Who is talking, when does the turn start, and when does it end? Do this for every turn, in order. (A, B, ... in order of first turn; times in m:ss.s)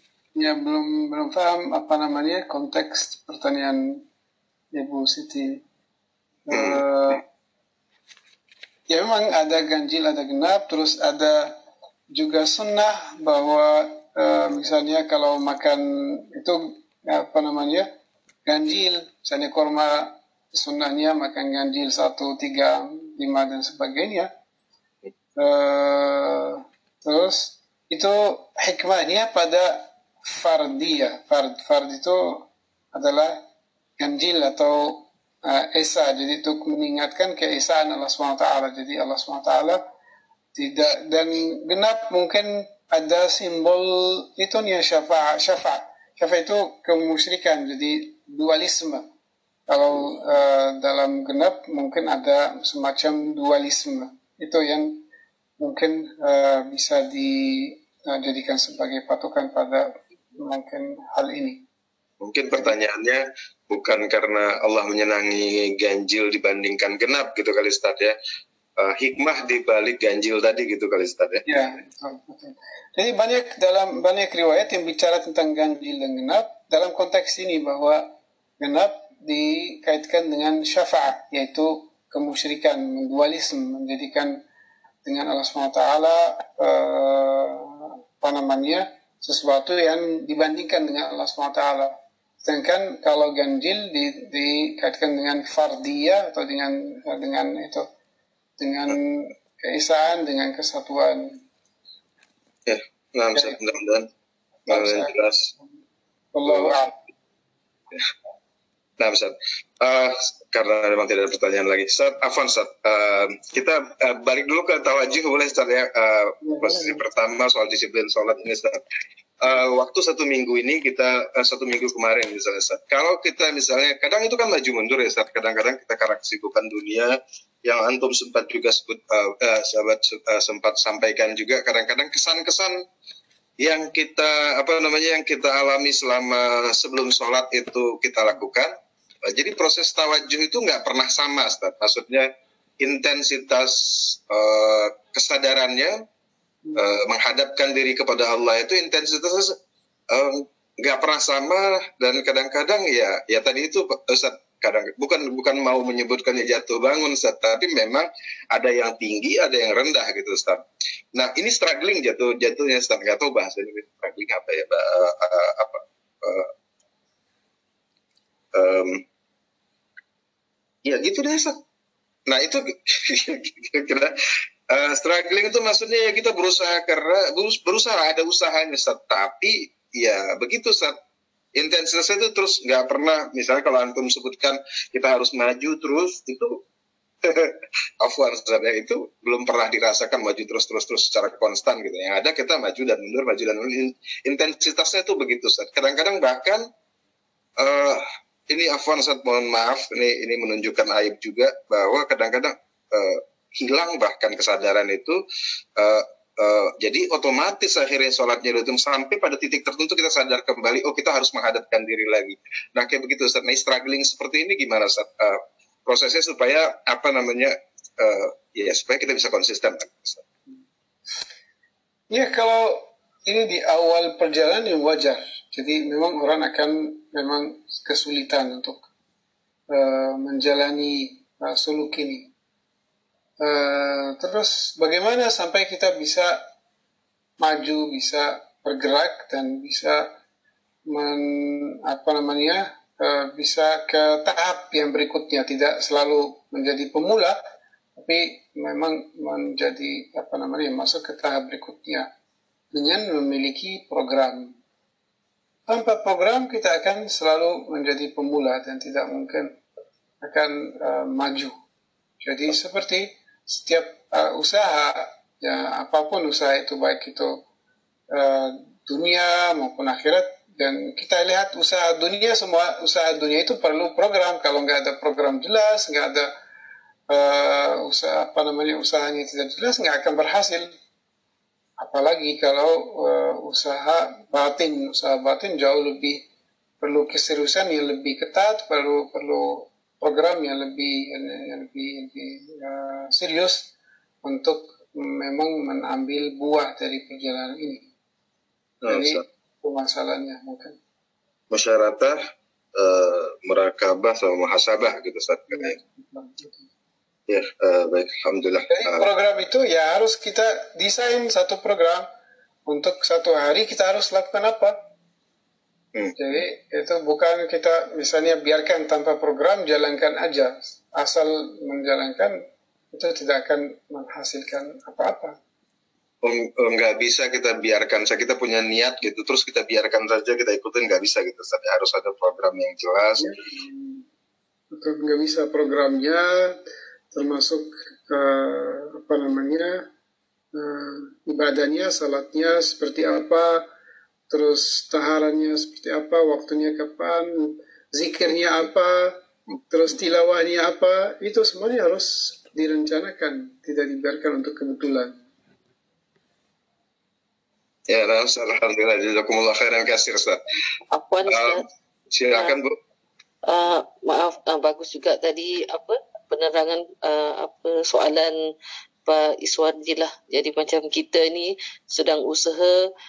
0:00.4-0:04.0 A
0:04.7-0:05.6 A
0:06.5-0:07.2 A
0:06.5-0:06.8 B
0:08.9-0:11.5 A
0:12.1-0:17.9 A
0:18.4-0:24.3 A
0:25.4-0:33.4 A
0:34.0-0:39.8 A
0:40.5-0:49.0 A
0:49.7-0:55.0 A
0:55.6-1:01.6 A
1:02.2-1:08.1 B
1:08.8-1:11.4 B
1:11.4-1:18.1 A
1:18.6-1:24.4 A
1:25.0-1:37.9 A
1:38.6-1:41.4 A
1:42.6-1:44.1 B
1:43.3-1:43.6 A
1:44.7-1:45.7 A
1:44.7-1:45.5 B
1:46.3-1:47.0 A
1:49.0-1:58.8 B
1:56.4-1:57.0 A
1:59.4-2:12.8 B
2:13.6-2:18.7 B
2:19.2-2:26.0 B
2:26.7-2:29.6 B
2:30.1-2:40.6 B
2:41.1-2:46.5 B
2:48.5-2:49.0 B
2:50.8-2:51.6 B
2:52.3-3:01.0 B
3:01.5-3:06.6 B
3:07.2-3:16.7 B
3:17.6-3:25.2 B
3:25.8-3:40.2 B
3:42.1-3:48.9 A
3:49.7-3:52.3 A
3:53.4-3:56.4 A
3:57.4-4:00.1 A
4:00.9-4:07.4 A
4:08.0-4:12.1 A
4:12.7-4:14.6 A
4:15.7-4:19.6 A
4:20.2-4:21.5 A
4:22.2-4:27.4 A
4:28.1-4:36.3 A
4:37.1-4:40.7 A
4:41.8-4:46.2 A
4:46.8-4:57.9 A
4:58.8-4:59.2 B
4:58.9-5:00.8 A
5:01.5-5:02.2 B
5:02.7-5:05.8 B
5:05.5-5:06.6 A
5:07.3-5:09.1 B
5:08.7-5:12.1 A
5:12.6-5:14.8 A
5:16.2-5:22.4 A
5:22.9-5:25.4 A
5:26.2-5:33.3 B
5:33.2-5:34.0 A
5:34.7-5:36.6 A
5:37.1-5:39.8 A
5:40.5-5:43.6 A
5:44.3-5:55.2 A
5:57.9-6:00.4 B
6:00.9-6:01.6 C
6:01.2-6:02.7 B
6:03.5-6:08.3 C
6:09.0-6:12.9 C